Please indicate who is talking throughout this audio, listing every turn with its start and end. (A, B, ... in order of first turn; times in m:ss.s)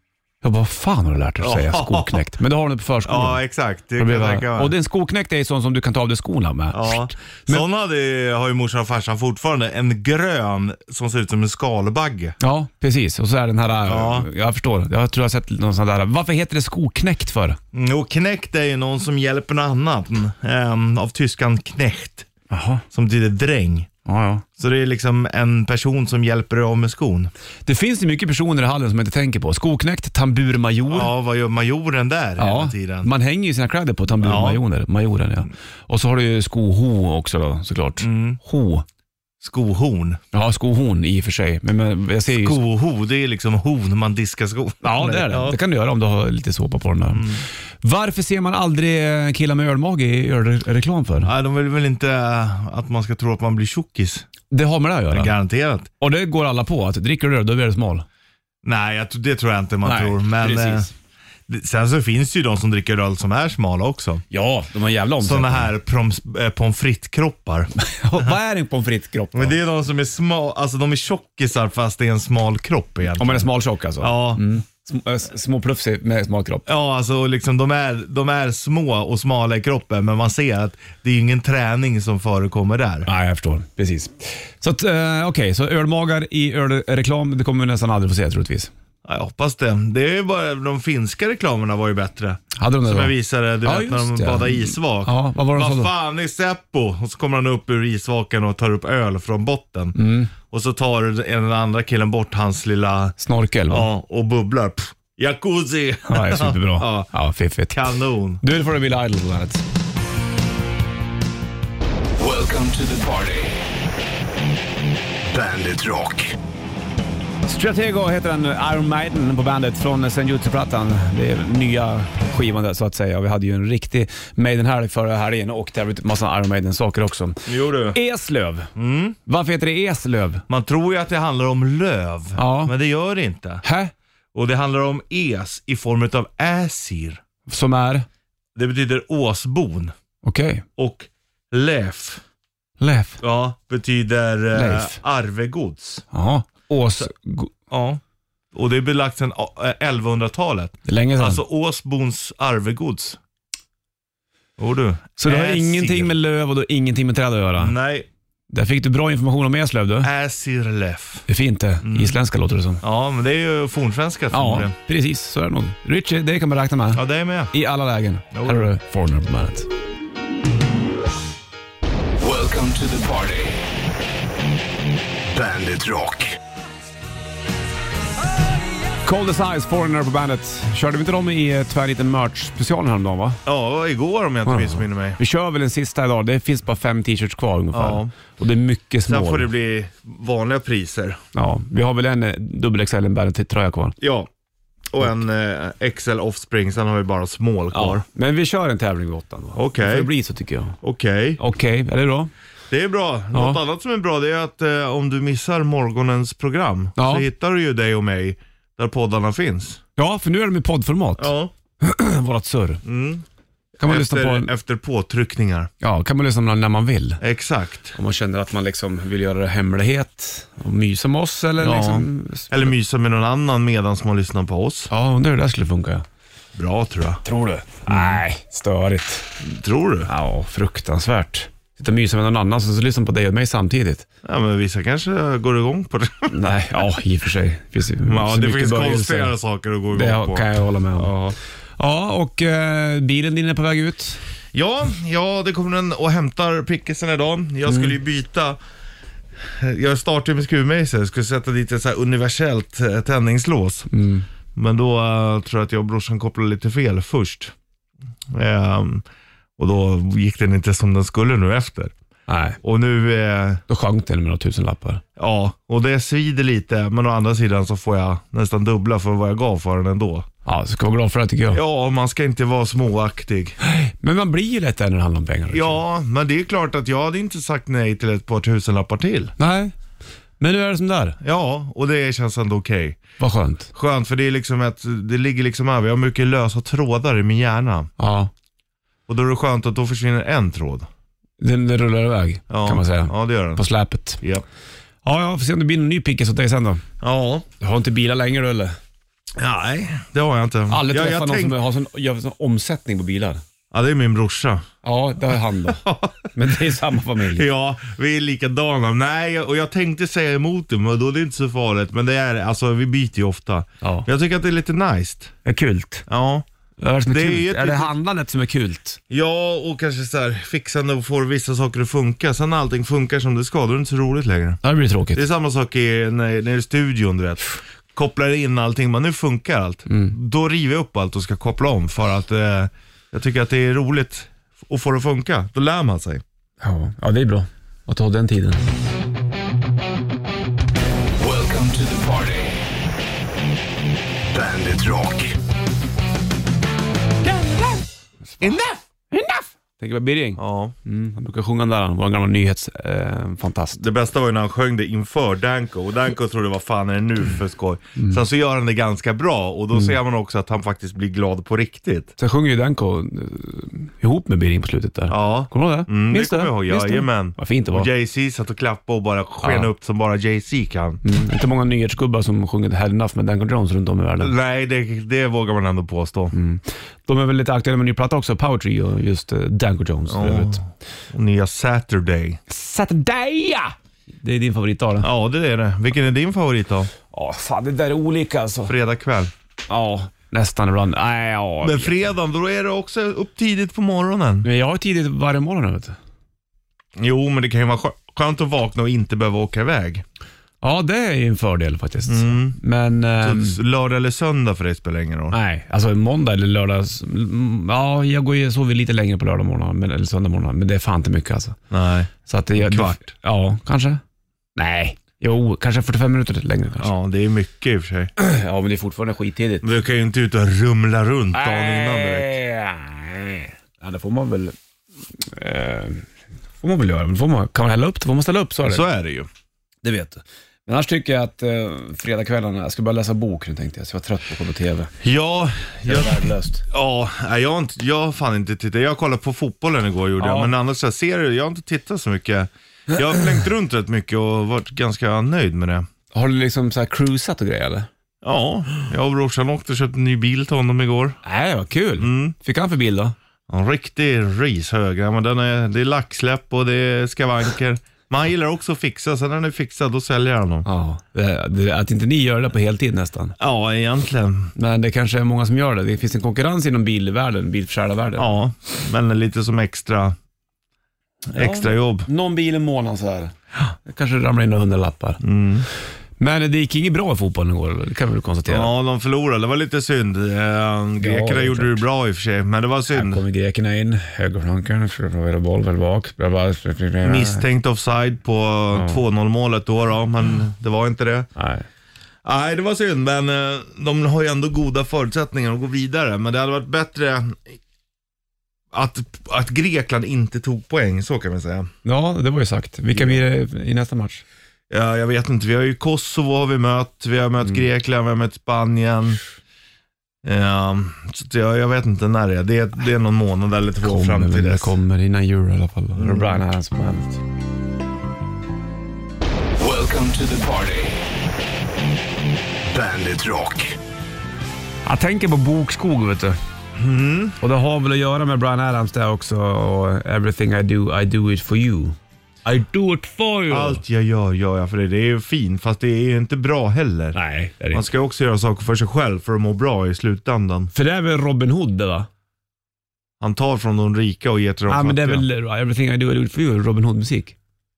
0:00.4-0:03.4 A
0:01.4-0:02.2 B
0:03.0-0:04.7 B
0:04.0-0:07.6 A
0:06.7-0:12.4 B
0:12.4-0:17.6 A
0:13.9-0:14.3 B
0:17.7-0:22.3 B
0:22.5-0:22.8 A
0:22.9-0:23.9 B
0:24.0-0:24.4 A
0:24.6-0:27.3 B
0:27.6-0:31.1 A
0:30.9-0:33.1 B
0:32.4-0:38.8 A
0:34.2-0:34.6 B
0:38.0-0:38.4 B
0:39.4-0:40.2 B
0:40.3-0:42.6 A
0:42.3-0:45.6 B
0:44.8-0:51.3 A
0:47.1-0:47.4 B
0:51.2-0:54.3 B
0:54.5-0:55.3 A
0:55.1-0:55.9 B
0:56.0-0:58.0 A
0:58.6-1:00.9 B
0:59.8-1:00.9 A
1:01.5-1:04.2 B
1:04.3-1:05.7 A
1:05.2-1:07.7 B
1:07.8-1:09.6 A
1:09.3-1:13.5 B
1:13.1-1:16.6 A
1:14.0-1:14.5 B
1:16.6-1:23.1 B
1:23.0-1:28.7 A
1:29.0-1:43.2 B
1:32.6-1:35.9 A
1:40.0-1:40.3 A
1:43.2-1:43.9 A
1:43.7-1:47.1 B
1:46.1-1:47.8 A
1:47.7-1:48.4 B
1:48.4-1:49.6 A
1:52.2-1:53.4 C
1:57.4-2:08.7 A
2:07.4-2:08.0 B
2:08.8-2:09.2 B
2:09.2-2:10.4 A
2:10.5-2:13.6 B
2:12.4-2:12.7 A
2:13.6-2:13.9 A
2:14.3-2:17.2 B
2:17.5-2:18.0 A
2:18.5-2:19.9 B
2:20.2-2:20.6 A
2:20.8-2:22.2 B
2:22.8-2:23.2 A
2:23.2-2:26.0 B
2:24.5-2:25.0 A
2:26.1-2:27.5 A
2:27.7-2:28.0 B
2:28.5-2:33.2 B
2:30.8-2:31.4 A
2:34.6-2:36.2 B
2:35.2-2:37.7 A
2:37.6-2:38.1 B
2:38.5-2:40.1 A
2:40.0-2:41.2 B
2:41.3-2:42.8 A
2:41.8-2:42.2 B
2:42.8-2:44.7 B
2:44.3-2:49.7 A
2:46.9-2:47.5 B
2:48.3-2:48.7 B
2:52.3-2:53.4 C
2:59.0-3:03.4 A
3:03.4-3:05.2 B
3:04.4-3:09.5 A
3:07.7-3:08.1 B
3:09.1-3:11.2 B
3:11.3-3:13.9 A
3:14.0-3:14.3 B
3:14.9-3:18.0 B
3:17.7-3:20.8 A
3:19.5-3:20.1 B
3:20.8-3:21.4 B
3:21.4-3:22.3 A
3:22.7-3:29.8 B
3:23.3-3:23.6 A
3:27.0-3:27.3 A
3:30.0-3:32.8 A
3:31.2-3:31.5 B
3:32.8-3:33.2 B
3:33.8-3:34.5 A
3:33.8-3:35.7 B
3:35.8-3:37.2 A
3:37.2-3:37.9 B
3:37.9-3:42.7 A
3:41.6-3:44.9 B
3:44.9-3:46.0 A
3:46.6-3:47.2 B
3:47.2-3:49.3 A
3:47.9-3:48.2 B
3:49.4-3:50.1 B
3:50.1-3:54.0 A
3:54.2-3:56.3 B
3:56.3-3:59.4 A
3:58.0-4:01.4 B
3:59.9-4:01.1 A
4:01.8-4:04.2 A
4:04.5-4:08.6 B
4:07.7-4:07.9 A
4:09.4-4:13.9 B
4:13.9-4:14.2 A
4:14.6-4:17.5 B
4:18.3-4:19.0 B
4:19.6-4:21.9 B
4:22.3-4:22.6 A
4:22.6-4:23.6 B
4:23.7-4:25.0 A
4:25.2-4:30.2 B
4:30.4-4:31.6 A
4:31.5-4:33.6 B
4:33.6-4:35.8 A
4:35.5-4:39.3 B
4:39.4-4:39.7 A
4:40.4-4:41.2 A
4:41.2-4:43.0 B
4:43.2-4:43.7 A
4:43.7-4:47.9 B
4:48.0-4:48.3 A
4:49.1-4:50.9 B
4:51.4-4:54.2 A
4:52.5-4:53.6 B
4:55.0-4:56.8 A
4:57.0-4:57.4 B
4:57.6-4:58.8 A
4:59.4-5:01.6 B
5:00.7-5:03.4 A
5:03.7-5:04.6 B
5:04.8-5:07.4 A
5:05.7-5:06.3 B
5:07.2-5:15.3 B
5:13.8-5:14.1 A
5:15.4-5:16.0 A
5:16.1-5:16.4 B
5:16.8-5:19.0 A
5:17.1-5:17.9 B
5:19.1-5:24.6 B
5:24.6-5:25.2 A
5:25.1-5:36.2 B
5:29.9-5:30.1 A
5:36.6-5:38.7 A
5:41.6-5:42.3 C
5:47.2-5:53.8 A
5:48.4-5:48.8 B
5:50.4-5:50.7 B
5:53.8-6:02.1 B
6:02.2-6:07.9 A
6:05.1-6:11.0 B
6:09.4-6:09.7 A
6:11.0-6:14.3 A
6:14.2-6:16.3 B
6:16.3-6:20.6 A
6:20.1-6:22.4 B
6:22.5-6:25.1 A
6:25.0-6:26.9 B
6:27.1-6:28.7 A
6:28.7-6:29.3 B
6:29.7-6:32.0 A
6:31.6-6:34.5 B
6:34.4-6:36.0 A
6:37.0-6:40.0 B
6:40.6-6:43.6 A
6:42.1-6:42.6 B
6:43.2-6:45.4 B
6:45.3-6:51.6 A
6:51.7-6:53.1 B
6:52.2-6:54.0 A
6:54.6-6:56.9 A
6:56.8-6:58.1 B
6:58.2-6:59.7 A
6:59.6-7:02.3 B
7:01.3-7:04.5 A
7:05.2-7:06.0 A
7:06.6-7:08.8 A
7:08.6-7:09.3 B
7:09.8-7:14.9 A
7:15.0-7:16.2 B
7:15.8-7:16.6 A
7:16.7-7:25.9 B
7:20.2-7:20.5 A
7:26.1-7:27.9 A
7:28.2-7:31.2 B
7:31.2-7:33.1 A
7:32.0-7:32.3 B
7:33.5-7:40.6 B
7:40.6-7:43.3 A
7:43.4-7:44.5 B
7:44.5-7:48.3 A
7:48.2-7:50.2 B
7:51.3-7:52.1 B
7:51.3-7:53.3 A
7:53.8-7:55.2 A
7:55.2-7:55.7 B
7:56.2-7:58.7 A
7:58.5-8:03.2 B
8:01.0-8:01.8 A
8:02.9-8:07.4 A
8:07.0-8:11.3 B
8:08.7-8:09.0 A
8:11.4-8:11.6 A
8:12.2-8:17.6 B
8:18.7-8:21.7 B
8:21.8-8:24.2 A
8:22.9-8:23.2 B
8:24.7-8:29.2 B
8:30.2-8:34.7 B
8:33.8-8:37.2 A
8:36.0-8:36.4 B
8:44.8-8:46.4 A
8:46.8-8:47.4 B
8:47.4-8:53.8 A
8:53.5-8:57.2 B
8:57.1-8:57.8 A
8:57.7-9:00.7 B
9:00.7-9:02.1 A
9:03.2-9:05.2 B
9:04.7-9:07.4 A